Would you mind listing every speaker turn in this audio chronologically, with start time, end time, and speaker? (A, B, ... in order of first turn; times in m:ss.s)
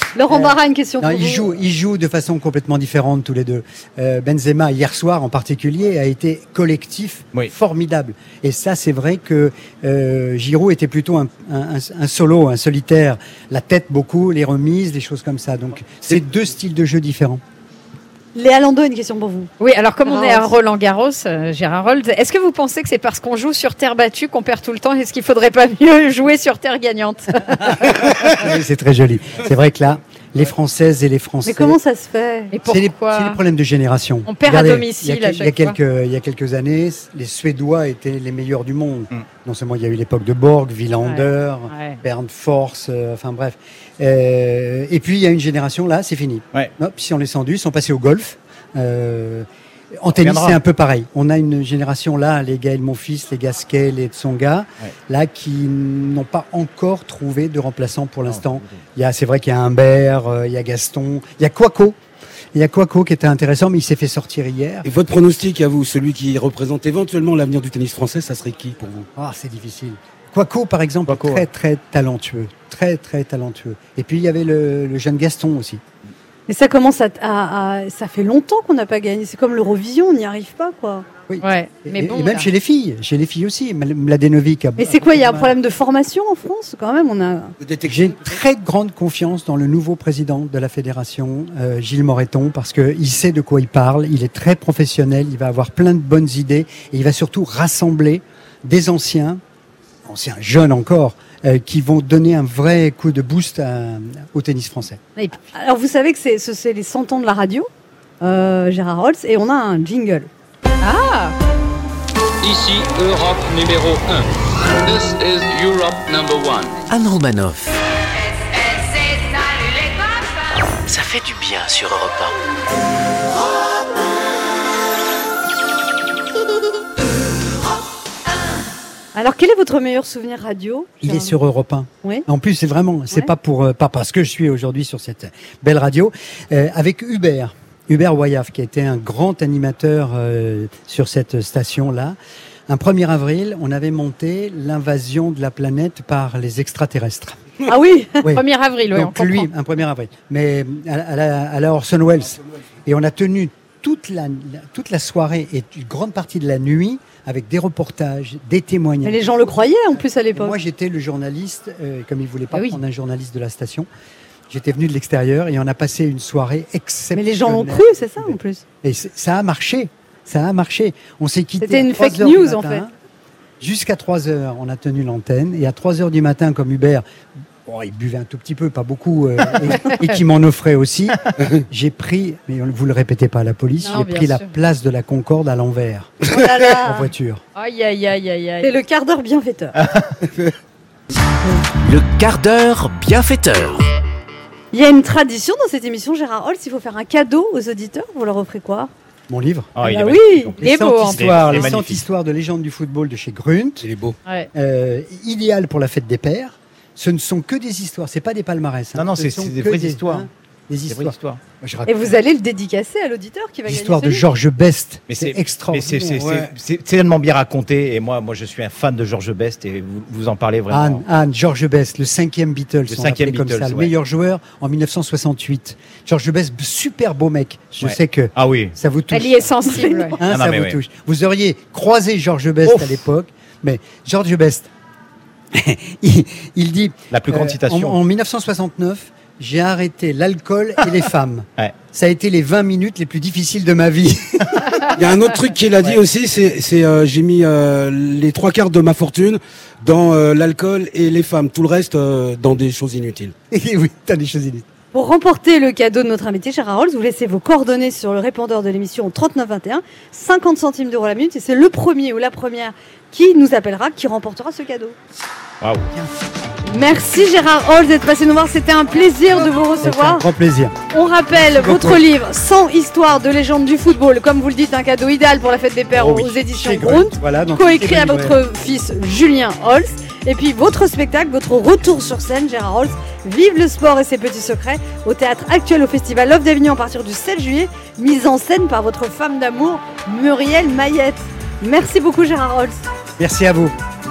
0:00.2-0:01.5 A
0:00.3-0:17.4 B
0:18.3-0:19.5 A
0:19.6-0:28.2 C
0:20.0-0:20.5 A
0:28.3-0:31.8 B
0:31.4-0:32.5 A
0:32.5-0:33.4 C
0:32.6-1:02.0 B
0:34.3-0:35.8 C
0:41.0-0:42.0 C
0:50.1-0:50.6 D
0:58.3-0:58.8 D
1:02.5-1:04.9 B
1:04.8-1:09.1 E
1:09.1-1:15.8 B
1:11.1-1:11.4 D
1:16.5-1:21.1 A
1:21.3-1:25.6 B
1:21.4-1:22.5 C
1:24.8-1:27.5 A
1:27.6-1:28.2 E
1:27.8-1:39.4 B
1:40.0-1:45.0 B
1:45.5-1:47.7 A
1:48.2-1:50.3 A
1:50.8-1:51.3 C
1:52.4-1:54.3 F
1:54.8-1:56.8 F
1:56.9-1:57.8 G
2:00.9-2:02.3 G
2:09.1-2:11.4 A
2:11.0-2:22.2 B
2:22.7-2:27.4 B
2:27.6-2:28.2 A
2:28.2-2:39.4 B
2:28.2-2:29.5 C
2:39.0-2:40.6 A
2:40.3-2:43.9 B
2:42.5-2:42.8 C
2:44.5-2:52.9 B
2:47.1-2:48.6 A
2:51.6-2:52.8 A
2:53.6-2:57.0 B
2:57.6-3:06.2 B
3:03.8-3:04.5 C
3:06.3-3:07.1 A
3:06.7-3:07.4 B
3:07.6-3:08.7 C
3:08.6-3:09.8 A
3:09.8-3:10.1 D
3:11.8-3:13.8 G
3:14.7-3:18.9 A
3:19.3-3:19.8 B
3:19.7-3:22.0 D
3:19.8-3:20.6 A
3:20.6-3:23.9 B
3:20.6-3:21.8 C
3:23.8-3:24.2 E
3:24.5-3:32.1 B
3:29.0-3:30.3 D
3:30.9-3:31.4 D
3:31.8-3:34.2 A
3:33.7-3:36.3 B
3:35.1-3:41.0 D
3:36.2-3:36.5 E
3:40.7-3:49.6 B
3:42.9-3:43.9 D
3:47.8-3:48.7 D
3:49.1-3:50.2 C
3:49.7-3:50.1 A
3:50.2-3:54.7 B
3:50.2-3:50.8 D
3:52.6-3:53.0 D
3:55.5-4:04.8 B
3:57.1-3:58.0 D
4:04.9-4:13.3 E
4:13.5-4:14.7 B
4:14.9-4:24.9 A
4:25.6-4:26.0 D
4:26.7-4:30.2 A
4:29.1-4:29.8 C
4:29.8-4:30.8 B
4:30.9-4:52.8 A
4:31.3-4:32.0 B
4:35.9-4:38.4 B
4:53.2-4:53.7 B